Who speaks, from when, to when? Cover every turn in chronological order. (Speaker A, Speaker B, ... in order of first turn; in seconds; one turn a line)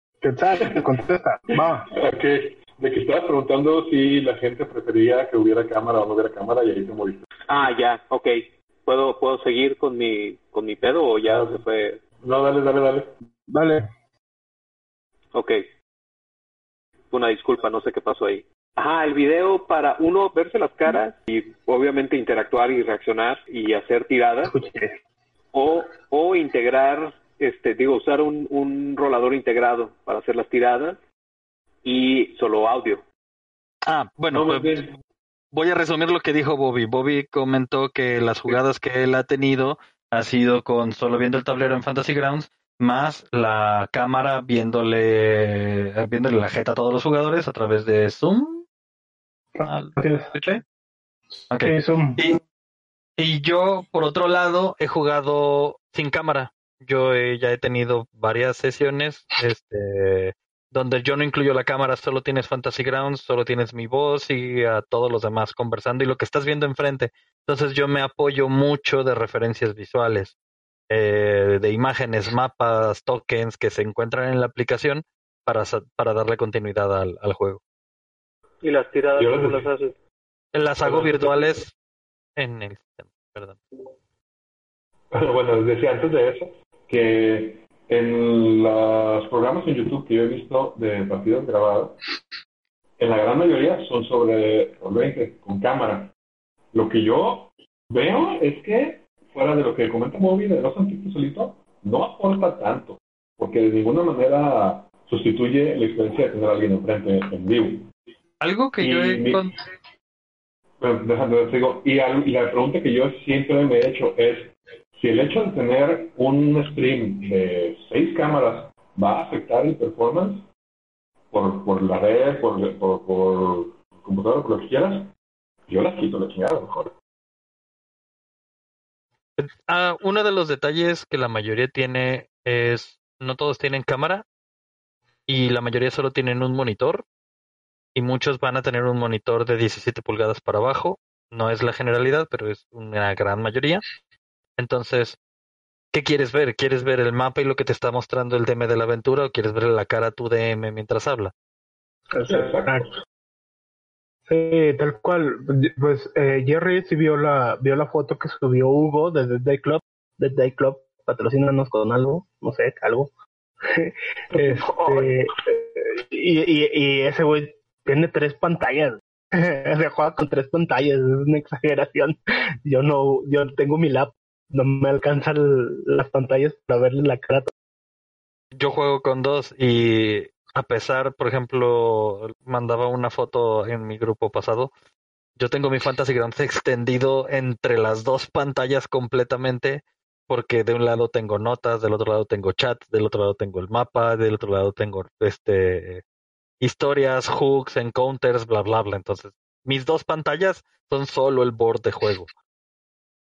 Speaker A: 0.2-1.9
Speaker B: 1.9-7.2
Speaker C: 7.5-12.0
Speaker B: 11.3-11.6
Speaker B: 12.2-13.1
Speaker A: 13.5-13.8
Speaker C: 15.3-15.7
Speaker C: 17.1-24.5
Speaker A: 24.4-24.9
Speaker C: 25.5-31.0
Speaker C: 31.8-33.0
Speaker D: 33.9-34.8
Speaker B: 34.3-34.9
Speaker D: 35.5-48.6
Speaker A: 49.5-50.3
Speaker D: 49.6-50.6
Speaker D: 51.5-52.4
Speaker A: 51.6-52.2
Speaker D: 53.2-70.3
Speaker D: 70.9-77.6
Speaker C: 78.6-79.9
Speaker B: 79.2-79.7
Speaker D: 80.5-81.7
Speaker B: 80.8-81.6
Speaker D: 82.3-83.6
Speaker B: 85.1-92.0
Speaker B: 93.0-96.1
Speaker B: 96.7-107.9
Speaker D: 108.4-109.5
Speaker B: 108.8-109.5
Speaker B: 110.8-120.5
Speaker B: 121.3-125.1
Speaker B: 125.7-126.9
Speaker D: 129.4-134.2
Speaker D: 135.3-137.1
Speaker D: 137.9-143.8
Speaker D: 144.6-145.2
Speaker D: 145.9-151.3
Speaker A: 152.1-152.9
Speaker B: 152.2-152.9
Speaker A: 154.3-163.1
Speaker A: 163.6-177.5
Speaker B: 164.3-165.2
Speaker D: 178.5-184.7
Speaker D: 185.4-196.0
Speaker D: 196.6-202.3